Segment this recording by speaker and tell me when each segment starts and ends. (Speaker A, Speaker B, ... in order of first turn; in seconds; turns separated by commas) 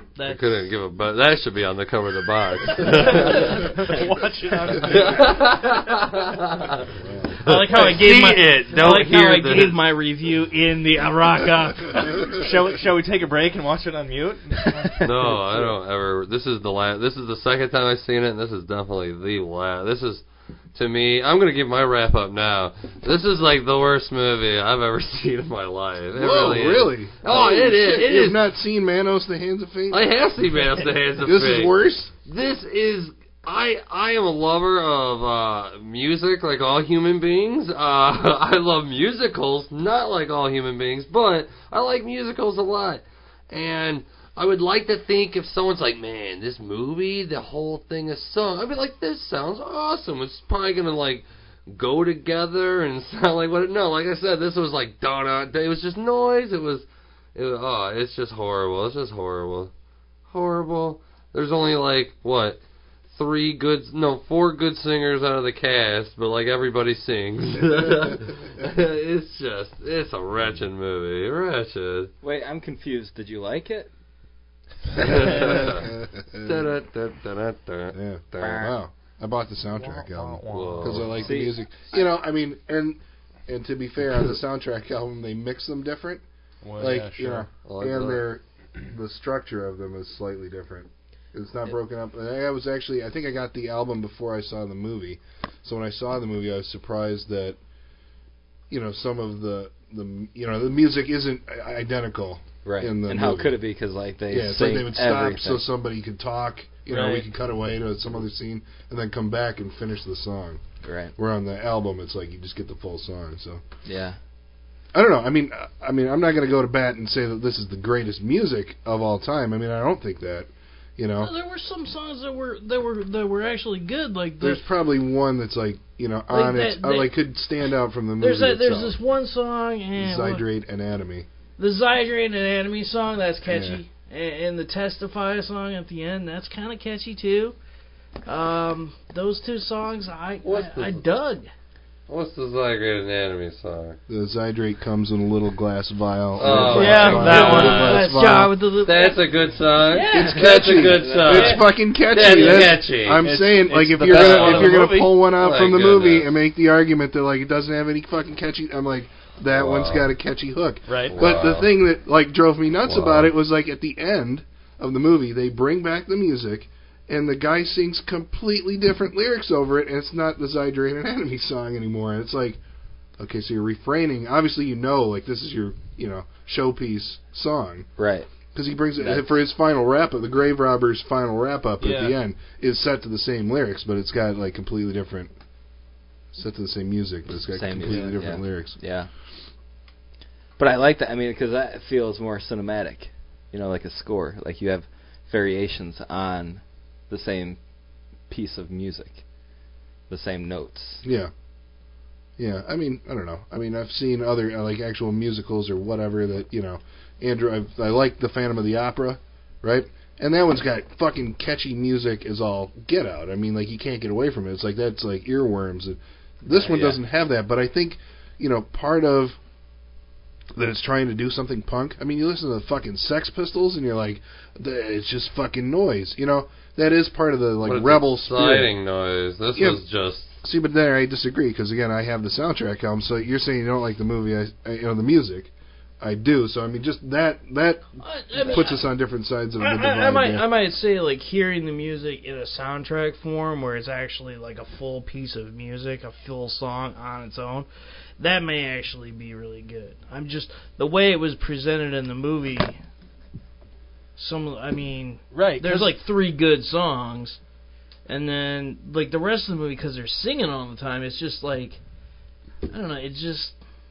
Speaker A: 0.1-0.5, Speaker B: 0.2-3.8, Speaker C: 3.0-5.3, Speaker B: 4.8-9.8, Speaker D: 7.0-7.4, Speaker A: 7.4-12.4, Speaker C: 12.2-15.1, Speaker B: 15.0-28.4, Speaker D: 26.1-30.1, Speaker B: 29.9-59.7, Speaker D: 31.2-32.1, Speaker B: 60.3-62.6, Speaker B: 63.1-72.1, Speaker E: 72.2-73.9, Speaker B: 74.9-75.9, Speaker D: 75.0-76.7, Speaker B: 76.4-78.0, Speaker D: 77.9-86.2, Speaker E: 78.4-78.7, Speaker C: 79.8-81.2, Speaker B: 80.5-81.2, Speaker E: 81.2-81.5, Speaker C: 86.6-87.5, Speaker D: 86.8-97.6, Speaker B: 87.6-88.2, Speaker D: 98.7-103.6, Speaker E: 102.6-105.6, Speaker D: 104.3-110.6, Speaker C: 106.9-107.2, Speaker E: 110.8-111.1, Speaker D: 111.2-113.6, Speaker E: 113.8-114.2, Speaker D: 114.9-121.3, Speaker A: 121.2-124.6, Speaker D: 124.4-129.0, Speaker A: 126.3-127.2, Speaker A: 128.2-130.4, Speaker D: 130.0-131.3, Speaker A: 131.6-137.6, Speaker D: 133.4-133.8, Speaker A: 138.2-141.5, Speaker B: 140.4-141.1, Speaker B: 142.1-144.0, Speaker D: 144.1-148.5, Speaker B: 146.4-148.1, Speaker C: 146.7-147.8, Speaker A: 146.8-149.3, Speaker B: 148.8-153.2, Speaker A: 149.8-151.6, Speaker D: 150.1-172.6, Speaker E: 150.9-151.6, Speaker C: 153.2-155.2, Speaker B: 154.1-156.3, Speaker B: 159.5-160.1, Speaker C: 160.9-161.1, Speaker B: 161.1-161.7, Speaker B: 162.8-163.3, Speaker D: 173.2-177.9, Speaker E: 178.0-178.3, Speaker D: 178.5-185.3, Speaker E: 179.0-179.3, Speaker C: 181.8-182.1, Speaker D: 186.3-188.8, Speaker E: 187.5-189.1, Speaker C: 187.9-188.1, Speaker E: 190.6-197.6, Speaker E: 198.3-199.2, Speaker E: 200.1-201.0, Speaker D: 201.0-201.3, Speaker D: 202.4-219.4, Speaker E: 216.5-217.0, Speaker D: 220.5-228.7, Speaker B: 227.6-230.3, Speaker D: 229.5-229.8, Speaker D: 230.4-240.5, Speaker A: 238.0-238.9, Speaker A: 239.6-247.7, Speaker A: 248.2-252.8, Speaker A: 254.2-257.4, Speaker C: 255.3-256.0, Speaker A: 258.1-261.8, Speaker A: 262.6-263.6